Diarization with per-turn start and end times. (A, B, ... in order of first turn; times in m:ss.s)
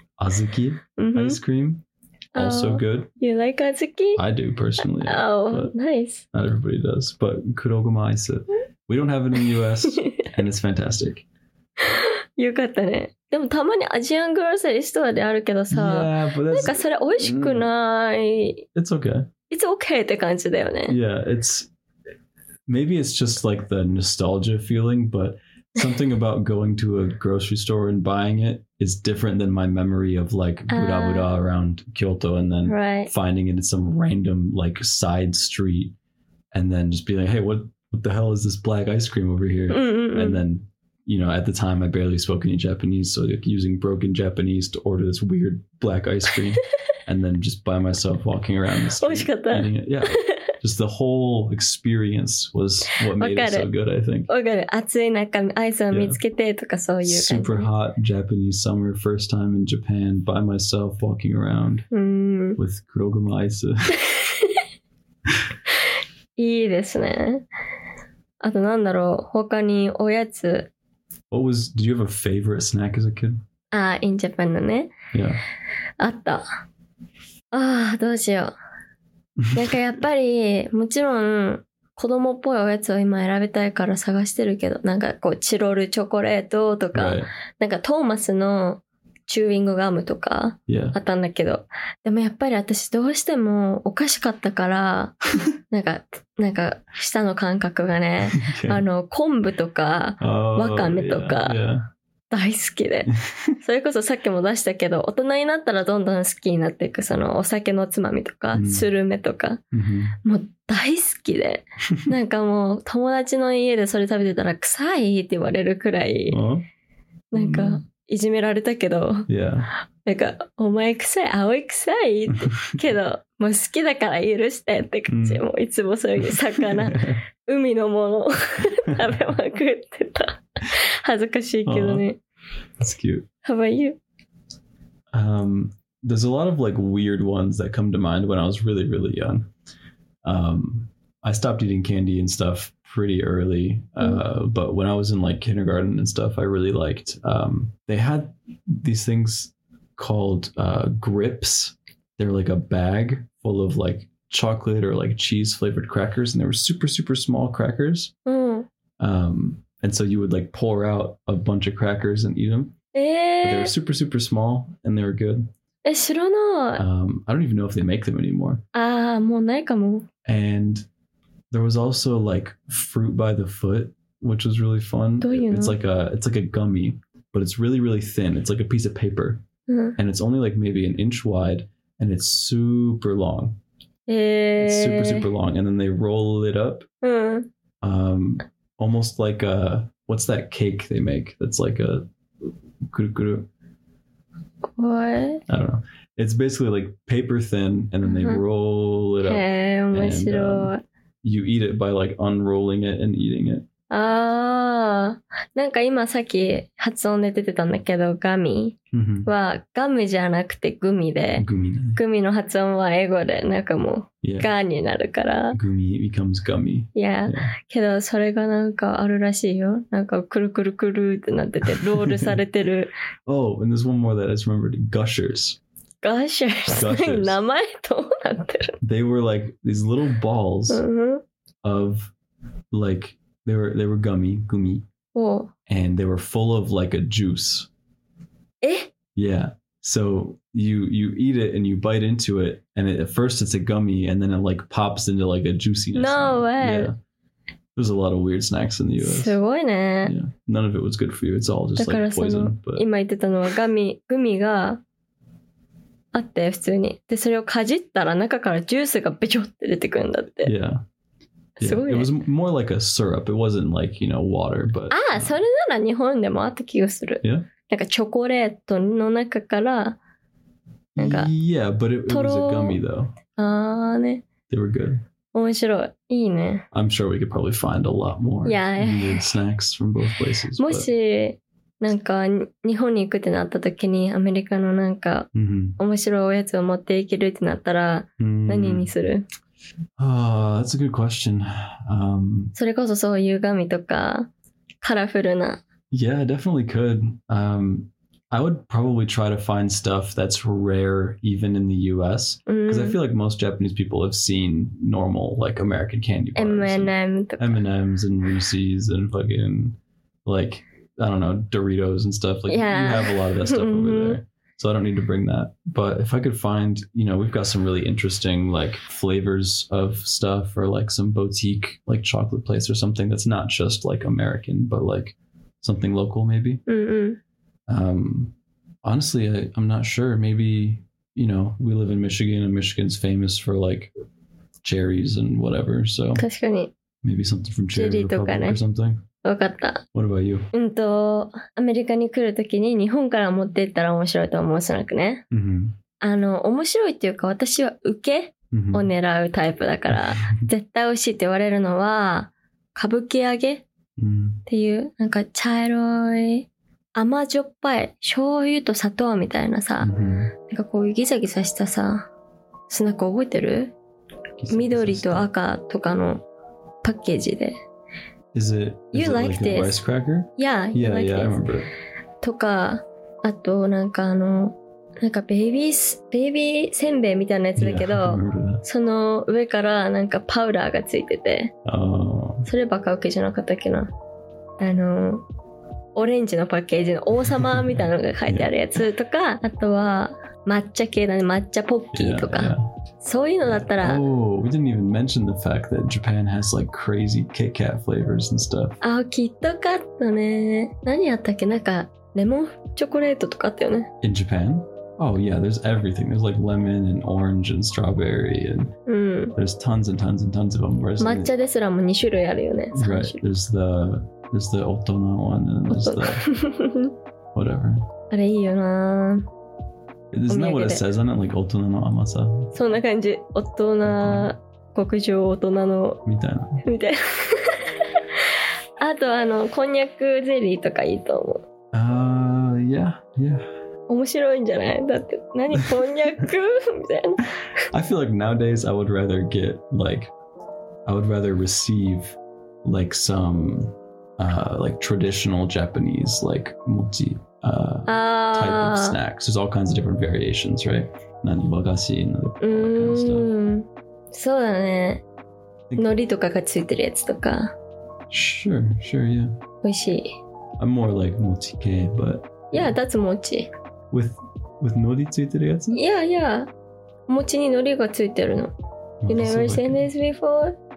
0:00.2-0:01.8 A
0:01.0-0:01.4 B
0:02.4-0:03.1 A
0:02.4-0:04.2 B
0:04.2-0:05.7 A
0:05.0-0:06.2 B
0:06.3-0:11.2 A
0:11.8-0:18.6 B
0:15.7-0:17.7 A
0:18.8-0:19.3 A
0:19.5-0:21.0 B
0:20.9-0:21.7 A
0:22.7-0:35.9 A
0:30.7-0:31.5 B
0:32.6-0:33.1 B
0:36.5-0:54.3 A
0:39.7-0:40.4 B
0:49.0-0:50.4 B
0:53.2-0:53.7 B
0:54.3-0:57.7 B
0:55.9-0:56.2 A
0:57.0-1:01.9 A
1:01.9-1:02.6 B
1:02.6-1:04.0 A
1:04.1-1:04.6 B
1:06.4-1:07.4 B
1:08.4-1:10.7 B
1:11.3-1:13.4 A
1:13.7-1:15.0 B
1:15.1-1:15.4 A
1:16.0-1:16.4 B
1:17.5-1:18.5 B
1:19.5-1:35.2 B
1:26.9-1:27.3 A
1:30.7-1:31.0 A
1:35.7-1:41.6 B
1:38.3-1:38.8 A
1:40.2-1:41.9 A
1:42.3-1:43.1 B
1:43.6-1:49.6 B
1:48.5-1:48.9 A
1:49.7-1:50.2 A
1:50.2-1:56.4 B
1:56.3-1:56.6 A
1:57.3-1:59.3 B
1:57.3-1:57.8 A
1:59.3-1:59.7 A
2:00.0-2:12.2 B
2:05.1-2:05.4 A
2:06.8-2:07.2 A
2:11.7-2:12.1 A
2:12.8-2:13.3 A
2:13.4-2:14.0 B
2:15.1-2:19.5 A
2:20.2-2:38.1 A
2:38.3-2:38.7 B
2:39.0-2:42.8 A
2:42.9-2:43.7 B
2:43.4-2:45.5 A
2:45.8-2:46.8 B
2:46.8-2:48.6 A
2:48.8-2:50.1 B
2:50.3-2:50.8 A
2:51.5-2:59.4 A
2:55.2-2:55.8 B
2:59.7-3:00.0 B
3:00.0-3:03.6 A
3:04.1-3:05.3 B
3:04.6-3:06.9 A
3:07.0-3:07.5 B
3:07.8-3:12.1 A
3:12.9-3:13.5 A
3:14.8-3:15.4 B
3:15.5-3:23.7 A
3:18.0-3:18.4 B
3:19.2-3:20.8 B
3:23.9-3:35.6 B
3:28.9-3:29.3 A
3:31.4-3:32.0 A
3:34.2-3:34.5 A
3:35.5-3:37.5 A
3:37.0-3:42.9 B
3:42.0-3:42.4 A
3:43.3-3:45.6 A
3:46.0-3:48.8 B
3:46.7-3:47.4 A
3:48.8-3:50.8 A
3:50.7-3:51.2 B
3:51.6-3:52.1 A
3:52.7-3:54.8 A
3:55.2-3:55.5 B
3:55.7-3:57.7 A
3:58.6-3:58.9 B
3:59.2-4:07.0 A
4:06.0-4:06.9 B
4:07.8-4:09.4 A
4:09.0-4:10.1 B
4:10.0-4:12.8 A
4:11.8-4:14.8 B
4:16.1-4:20.5 B
4:20.4-4:20.8 A
4:21.6-4:22.1 B
4:21.6-4:25.4 A
4:24.9-4:30.0 B
4:27.2-4:27.5 A
4:31.0-4:33.2 A
4:31.0-4:31.3 B
4:32.1-4:32.8 B
4:33.4-4:34.3 B
4:34.5-4:35.0 A
4:35.3-4:36.7 B
4:36.7-4:40.9 A
4:38.4-4:39.4 B
4:40.6-4:49.3 B
4:45.3-4:45.8 A
4:48.2-4:48.9 A
4:50.0-4:52.5 A
4:52.6-4:54.3 B
4:54.8-4:55.6 B
4:55.9-5:26.6 A
5:02.5-5:03.0 B
5:06.4-5:07.7 B
5:12.5-5:14.2 B
5:26.7-5:27.2 B
5:27.7-5:33.9 A
5:34.6-5:36.2 A
5:36.2-5:36.7 B
5:37.0-5:39.0 A
5:37.7-5:38.6 B
5:39.2-5:39.8 B
5:39.9-5:40.5 A
5:40.5-5:45.2 B
5:45.3-5:45.8 A
5:46.0-5:53.6 B
5:48.5-5:48.9 A
5:49.9-5:50.5 A
5:54.0-5:54.4 A
5:54.5-5:59.9 B
5:59.8-6:00.3 A
6:00.5-6:02.1 B
6:02.7-6:03.7 B
6:04.4-6:05.3 A
6:04.5-6:06.2 B
6:06.8-6:07.6 B
6:08.3-6:11.7 A
6:08.9-6:09.8 B
6:10.4-6:11.4 B
6:12.2-6:21.5 B
6:17.6-6:18.6 A
6:21.6-6:22.5 A
6:22.5-6:23.9 B
6:24.6-6:25.2 B
6:26.0-6:34.0 B
6:27.6-6:28.5 A
6:31.9-6:32.7 A
6:33.4-6:38.8 A
6:38.8-6:43.9 B
6:44.0-6:48.7 A
6:48.9-6:49.3 B
6:49.4-6:51.3 A
6:51.0-6:53.2 B
6:52.7-6:56.3 A
6:55.7-6:56.9 B
6:57.3-6:57.8 A
6:58.1-6:59.3 B
7:00.1-7:02.6 A
7:00.3-7:00.8 B
7:02.5-7:06.0 B
7:03.8-7:04.3 A
7:06.0-7:06.6 A
7:06.6-7:08.0 B
7:08.8-7:11.4 B
7:11.7-7:13.4 A
7:13.9-7:17.3 B
7:17.7-7:20.1 A
7:20.9-7:33.3 A
7:27.9-7:29.0 B
7:32.4-7:35.0 B
7:35.7-7:36.0 A
7:35.8-7:37.5 B
7:38.1-7:39.3 A
7:39.6-7:40.2 B
7:40.6-7:42.8 A
7:42.5-7:43.5 B
7:43.9-7:45.8 A
7:45.7-7:46.5 B
7:47.1-7:48.5 B
7:49.0-7:49.9 A
7:49.1-7:50.6 B